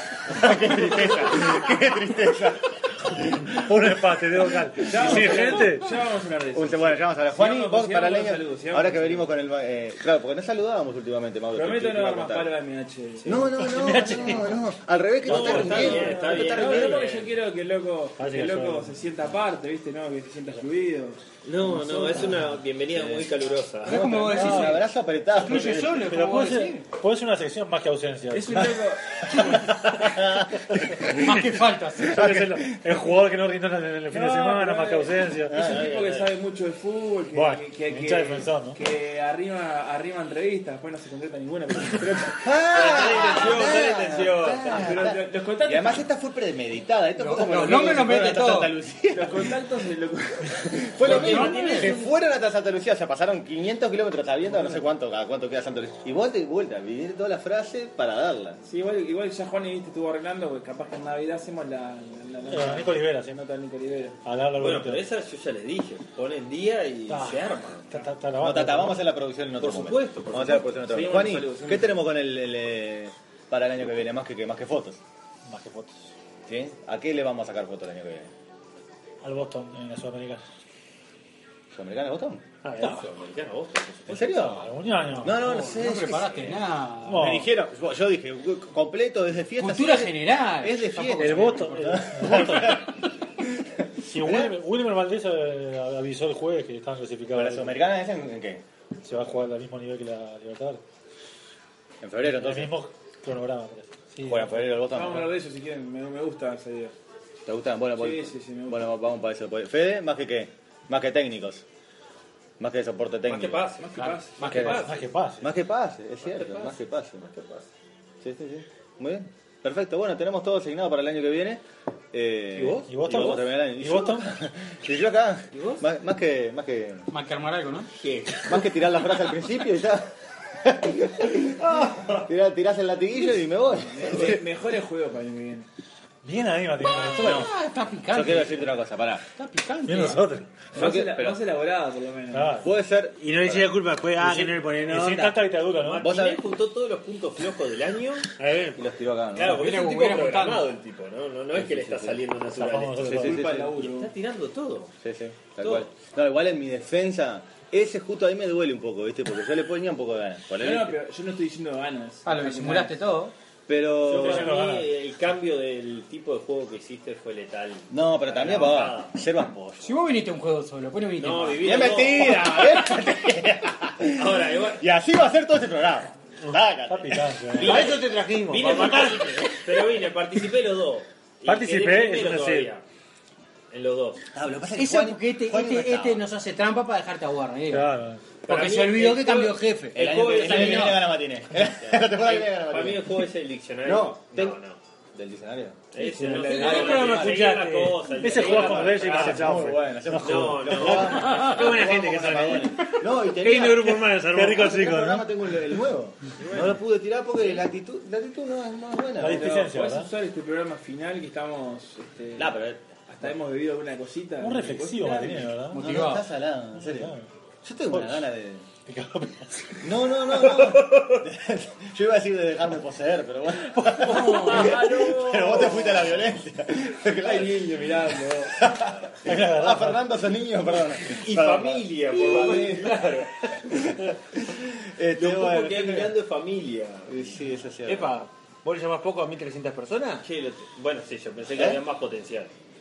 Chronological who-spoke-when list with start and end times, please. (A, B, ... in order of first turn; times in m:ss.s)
0:00.3-0:03.4 A
0:03.2-0:06.0 B
0:04.9-0:09.3 C
0:05.0-0:05.5 A
0:06.5-0:12.5 A
0:11.5-0:13.7 C
0:13.2-0:17.1 A
0:13.6-0:14.6 B
0:15.2-0:17.3 D
0:15.3-0:16.1 B
0:15.3-0:22.6 C
0:18.2-0:19.1 B
0:21.4-0:24.3 D
0:23.0-0:23.3 A
0:23.8-0:26.8 E
0:23.9-0:26.1 A
0:24.0-0:24.8 B
0:25.5-0:28.8 B
0:28.3-0:29.6 C
0:29.3-0:31.1 A
0:30.7-0:35.7 B
0:31.1-0:32.3 E
0:32.1-0:32.8 A
0:34.1-0:42.5 C
0:35.5-0:35.9 A
0:35.6-0:36.4 D
0:37.3-0:38.8 B
0:42.4-0:49.5 A
0:42.7-0:44.8 F
0:44.6-0:46.0 C
0:47.2-0:48.8 E
0:49.1-0:51.8 C
0:50.7-0:58.6 A
0:51.0-0:52.0 E
0:58.6-1:04.2 C
1:02.5-1:03.4 B
1:04.2-1:05.0 B
1:04.6-1:08.0 D
1:07.1-1:09.0 B
1:08.4-1:15.0 A
1:09.6-1:10.8 D
1:10.8-1:12.0 C
1:15.5-1:16.1 B
1:16.5-1:18.3 A
1:19.2-1:20.4 B
1:21.7-1:22.4 A
1:22.6-1:24.3 D
1:24.1-1:24.7 A
1:24.1-1:25.4 B
1:25.2-1:33.5 A
1:25.3-1:27.3 E
1:27.0-1:27.5 B
1:29.6-1:32.1 E
1:31.2-1:32.9 B
1:34.0-1:37.8 B
1:34.2-1:34.6 A
1:37.3-1:38.6 A
1:39.0-1:40.8 B
1:42.0-1:42.8 A
1:42.2-1:44.6 B
1:44.2-1:45.3 A
1:44.8-1:46.9 C
1:47.4-1:51.6 A
1:48.0-1:48.9 C
1:52.6-1:53.7 A
1:53.3-1:55.0 D
1:53.8-1:54.7 C
1:54.0-1:54.9 E
1:54.6-1:55.5 B
1:55.4-1:57.3 A
1:56.2-1:57.7 D
1:58.2-2:01.6 A
2:02.1-2:07.1 A
2:02.6-2:03.4 D
2:02.9-2:04.3 B
2:05.5-2:05.8 D
2:07.1-2:07.9 E
2:08.0-2:08.7 D
2:08.4-2:14.4 A
2:13.7-2:15.7 C
2:16.2-2:17.5 B
2:16.9-2:18.8 E
2:17.2-2:17.5 A
2:18.1-2:19.2 A
2:19.4-2:20.2 E
2:19.9-2:20.7 B
2:20.7-2:22.7 C
2:20.8-2:21.4 A
2:22.3-2:22.7 B
2:22.6-2:23.7 A
2:23.2-2:25.5 F
2:24.0-2:26.1 B
2:25.7-2:28.3 D
2:26.0-2:26.4 A
2:28.4-2:28.8 F
2:28.8-2:29.7 A
2:29.4-2:34.9 D
2:29.5-2:30.7 E
2:31.5-2:32.2 A
2:32.5-2:33.5 B
2:33.0-2:33.8 A
2:33.1-2:34.1 C
2:35.0-2:41.0 A
2:35.6-2:35.9 D
2:40.6-2:43.0 C
2:42.2-2:43.3 E
2:43.7-2:44.6 A
2:44.0-2:49.2 D
2:44.1-2:44.9 B
2:47.9-2:50.0 A
2:49.8-2:51.8 E
2:51.2-2:53.0 D
2:51.6-2:58.0 A
2:54.1-2:54.8 D
2:56.9-2:58.0 B
2:57.6-3:02.8 D
2:57.6-2:59.6 F
3:01.4-3:02.7 B
3:03.7-3:04.2 D
3:04.3-3:06.3 A
3:04.7-3:07.9 E
3:07.7-3:08.2 B
3:08.4-3:11.1 E
3:08.4-3:11.1 D
3:09.9-3:13.3 A
3:11.8-3:14.8 D
3:13.8-3:14.6 A
3:15.1-3:15.9 A
3:15.9-3:21.9 D
3:16.0-3:17.2 C
3:16.5-3:18.0 F
3:16.5-3:16.8 E
3:16.6-3:17.5 A
3:18.1-3:21.1 B
3:18.3-3:29.7 A
3:21.3-3:24.7 F
3:24.2-3:25.3 B
3:26.4-3:26.7 C
3:29.2-3:30.1 B
3:29.6-3:35.6 C
3:32.4-3:32.8 A
3:34.4-3:36.0 B
3:35.7-3:36.3 E
3:35.8-3:38.7 A
3:36.8-3:37.3 B
3:37.9-3:38.3 B
3:38.9-3:39.8 B
3:39.8-3:47.7 A
3:43.8-3:46.1 C
3:47.3-3:48.6 C
3:48.6-3:53.0 A
3:49.2-3:50.0 B
3:51.1-3:54.0 D
3:54.3-3:56.2 A
3:55.2-3:57.3 D
3:57.1-3:58.2 A
3:57.9-4:00.3 F
4:00.2-4:02.5 D
4:01.5-4:01.8 A